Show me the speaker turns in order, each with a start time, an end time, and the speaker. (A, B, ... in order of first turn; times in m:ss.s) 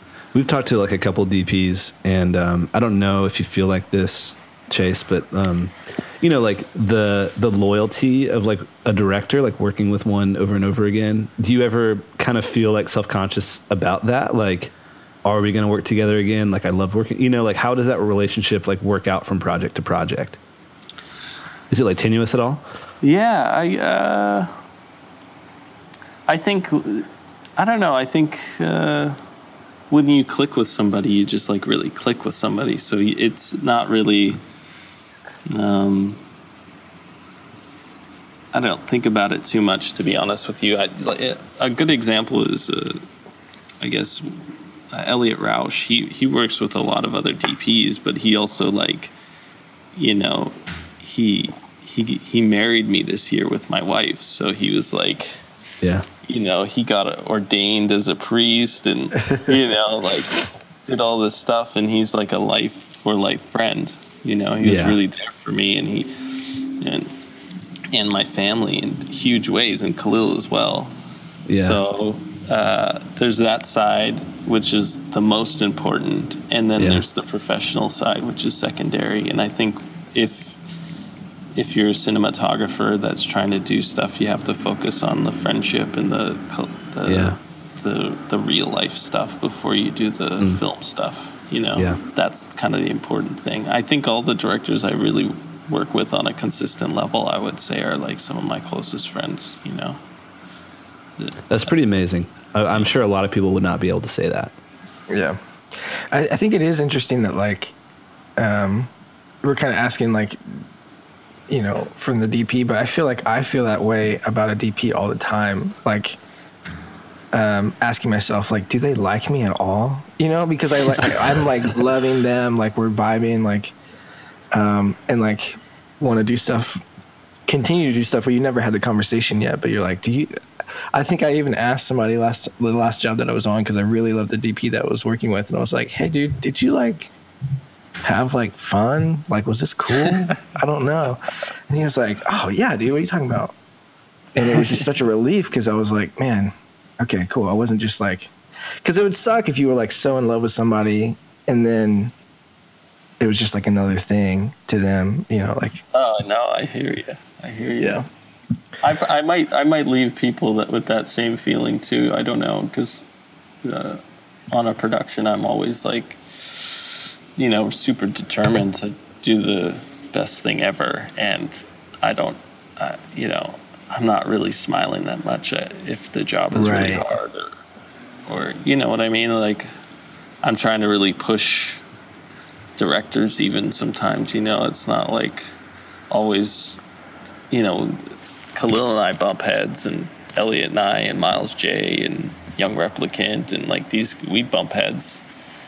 0:00.3-0:20.4 A
0:21.7-0:22.6 A
0:23.0-0:24.5 B
0:26.3-0:29.2 B
0:29.9-0:34.4 B
0:35.5-0:36.2 B
0:38.5-0:43.0 B
0:43.8-0:49.1 B
0:49.9-0:55.4 B
0:55.8-0:56.1 A
0:56.2-1:07.2 B
1:04.6-1:05.0 A
1:07.9-1:11.0 B
1:11.5-1:11.8 A
1:11.5-1:20.6 B
1:16.8-1:17.0 A
1:21.6-1:40.0 B
1:27.0-1:27.4 A
1:41.2-1:41.7 B
1:41.5-1:44.5 A
1:45.1-1:47.7 C
1:48.4-1:48.9 C
1:49.4-1:50.6 C
1:51.5-1:56.2 C
1:57.3-2:03.7 C
2:04.5-2:06.8 C
2:07.5-2:10.3 C
2:10.9-2:17.1 C
2:18.0-2:23.6 C
2:20.0-2:20.3 B
2:24.4-2:28.3 C
2:28.8-2:32.1 C
2:33.2-2:35.8 C
2:35.9-2:38.0 B
2:37.8-2:38.1 C
2:38.8-2:43.1 B
2:43.6-2:57.6 B
2:56.5-2:57.1 C
2:58.3-2:59.7 B
3:00.4-3:01.8 B
3:02.8-3:05.5 B
3:06.1-3:06.8 B
3:07.5-3:15.2 B